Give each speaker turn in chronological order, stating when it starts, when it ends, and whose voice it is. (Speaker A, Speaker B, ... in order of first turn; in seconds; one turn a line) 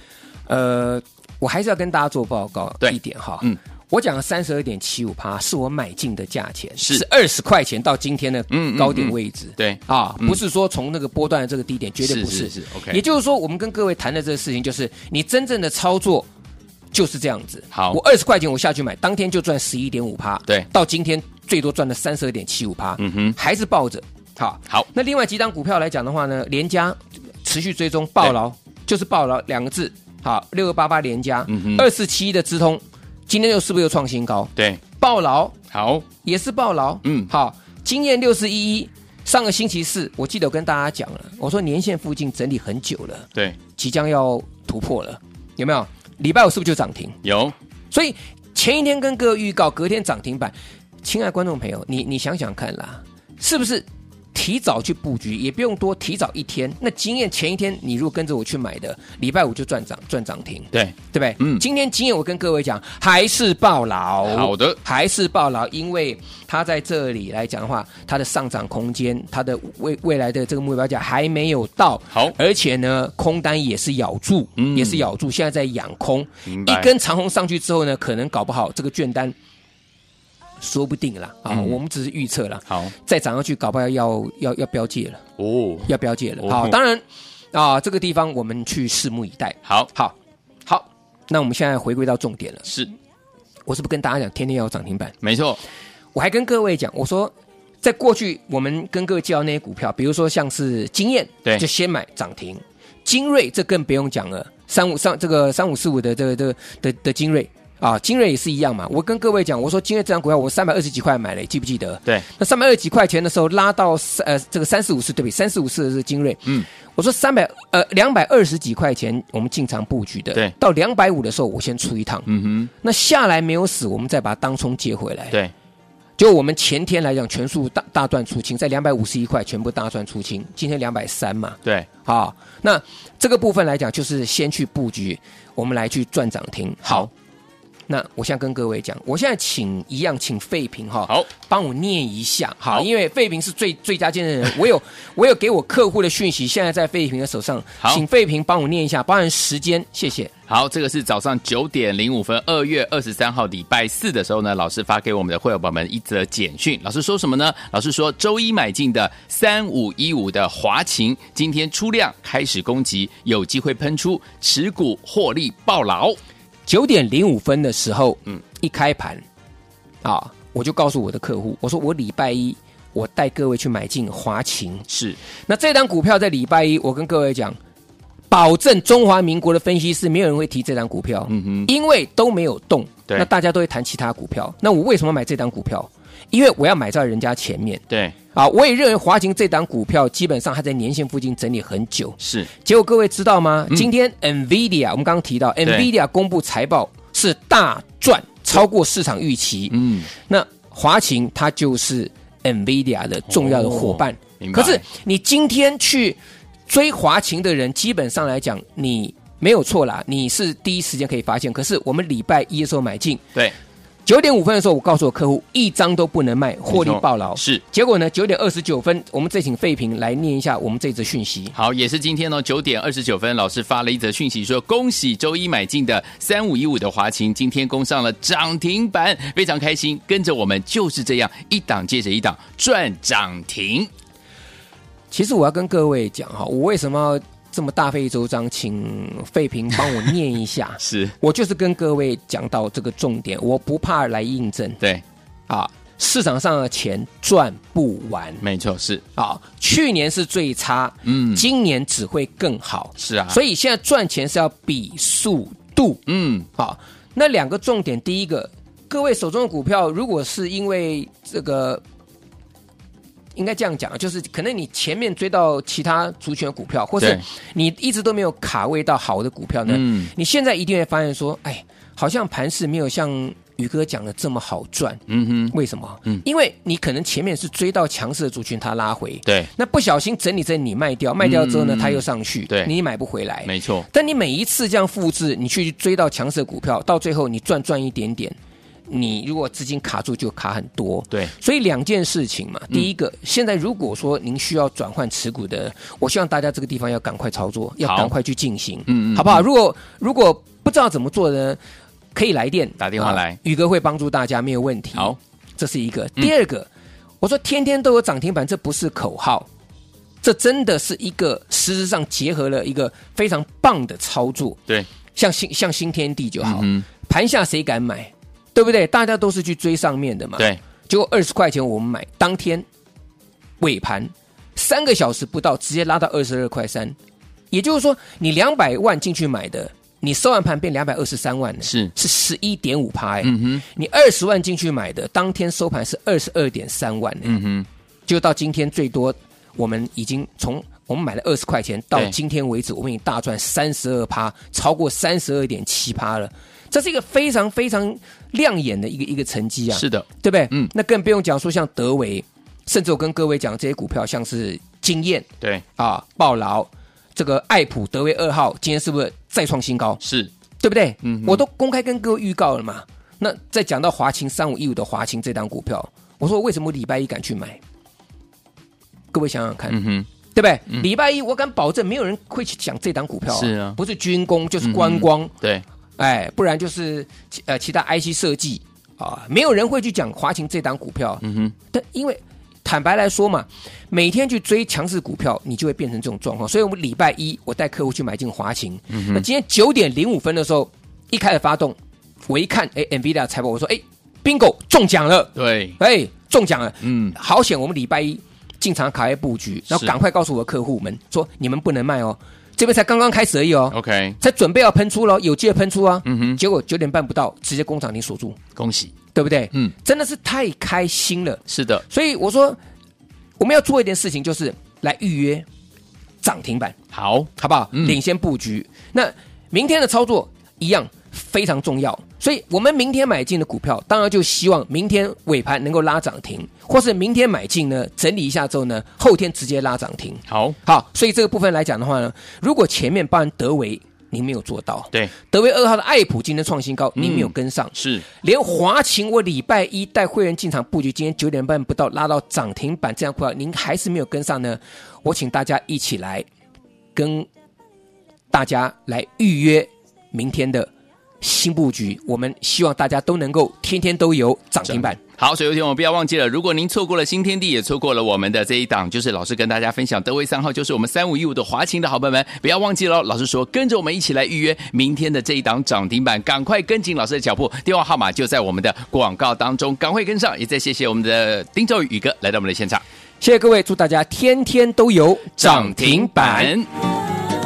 Speaker A: 0.5-16.3
Speaker B: 2.8-3.6
Speaker B: 6.8-7.0
Speaker B: 8.5-10.4
Speaker B: 12.0-13.0
Speaker A: 16.9-35.5
Speaker B: 17.7-18.0
Speaker B: 23.0-23.4
Speaker B: 31.5-31.8
Speaker B: 34.5-34.8
Speaker B: 35.7-36.1
Speaker A: 36.2-47.2
Speaker B: 37.0-37.3
Speaker B: 47.2-47.5
Speaker A: 47.9-79.3
Speaker B: 60.7-61.6
Speaker B: 64.2-64.8
Speaker B: 74.6-75.1
Speaker B: 76.5-76.9
Speaker A: 80.6-85.2
Speaker B: 81.5-81.8
Speaker B: 85.4-85.9
Speaker A: 85.9-90.1
Speaker B: 86.4-86.8
Speaker A: 90.7-92.7
Speaker A: 93.7-95.2
Speaker B: 95.2-95.6
Speaker A: 96.1-122.3
Speaker B: 122.3-122.7
Speaker A: 122.8-125.4
Speaker A: 126.2-137.1
Speaker A: 137.9-150.3
Speaker B: 150.5-166.2
Speaker A: 166.7-169.2
Speaker A: 170.0-174.9
Speaker B: 174.9-175.2
Speaker A: 175.5-177.6
Speaker A: 178.3-187.8
Speaker B: 181.3-181.7
Speaker B: 187.9-188.1
Speaker A: 188.3-213.2
Speaker B: 192.2-192.5
Speaker B: 199.7-200.1
Speaker B: 203.3-204.8
Speaker A: 214.1-221.5
Speaker B: 216.7-217.6
Speaker B: 221.5-233.9
Speaker A: 235.1-244.8
Speaker B: 240.8-241.2
Speaker A: 245.5-248.4
Speaker B: 248.4-249.0
Speaker A: 249.2-256.0
Speaker B: 251.0-251.4
Speaker B: 253.0-253.4
Speaker B: 256.1-256.5
Speaker A: 256.6-261.8
Speaker A: 263.4-275.0
Speaker B: 269.7-270.1
Speaker B: 275.1-275.5
Speaker A: 275.5-288.4
Speaker B: 281.2-282.7
Speaker B: 283.4-283.9
Speaker A: 288.9-301.6
Speaker B: 297.8-298.1
Speaker B: 298.9-299.4
Speaker A: 302.1-306.7
Speaker B: 302.8-303.4
Speaker A: 307.2-309.5
Speaker A: 310.2-314.6
Speaker A: 315.1-322.6
Speaker B: 316.4-316.9
Speaker A: 323.6-326.9
Speaker A: 327.5-337.4
Speaker B: 331.6-331.9
Speaker B: 333.2-333.6
Speaker B: 337.2-337.7
Speaker A: 338.1-360.0
Speaker B: 349.7-350.7
Speaker B: 360.0-360.3
Speaker A: 360.6-367.6
Speaker B: 361.0-361.4
Speaker A: 369.1-375.3
Speaker B: 369.7-370.1
Speaker B: 373.3-373.8
Speaker B: 374.6-375.6
Speaker A: 376.0-391.8
Speaker B: 381.2-381.5
Speaker B: 388.9-389.2
Speaker A: 392.3-408.4
Speaker B: 395.4-395.8
Speaker B: 396.8-397.1
Speaker B: 403.7-404.2
Speaker B: 406.0-406.4
Speaker B: 408.6-408.9
Speaker A: 409.1-412.6
Speaker B: 411.5-411.8
Speaker A: 413.4-415.4
Speaker A: 416.2-416.8
Speaker B: 416.9-418.0
Speaker A: 417.4-446.3
Speaker B: 430.3-430.6
Speaker B: 437.0-438.1
Speaker A: 446.9-447.3
Speaker A: 448.3-450.7
Speaker A: 451.2-455.0
Speaker B: 454.7-472.8
Speaker A: 473.2-476.5
Speaker B: 475.4-476.7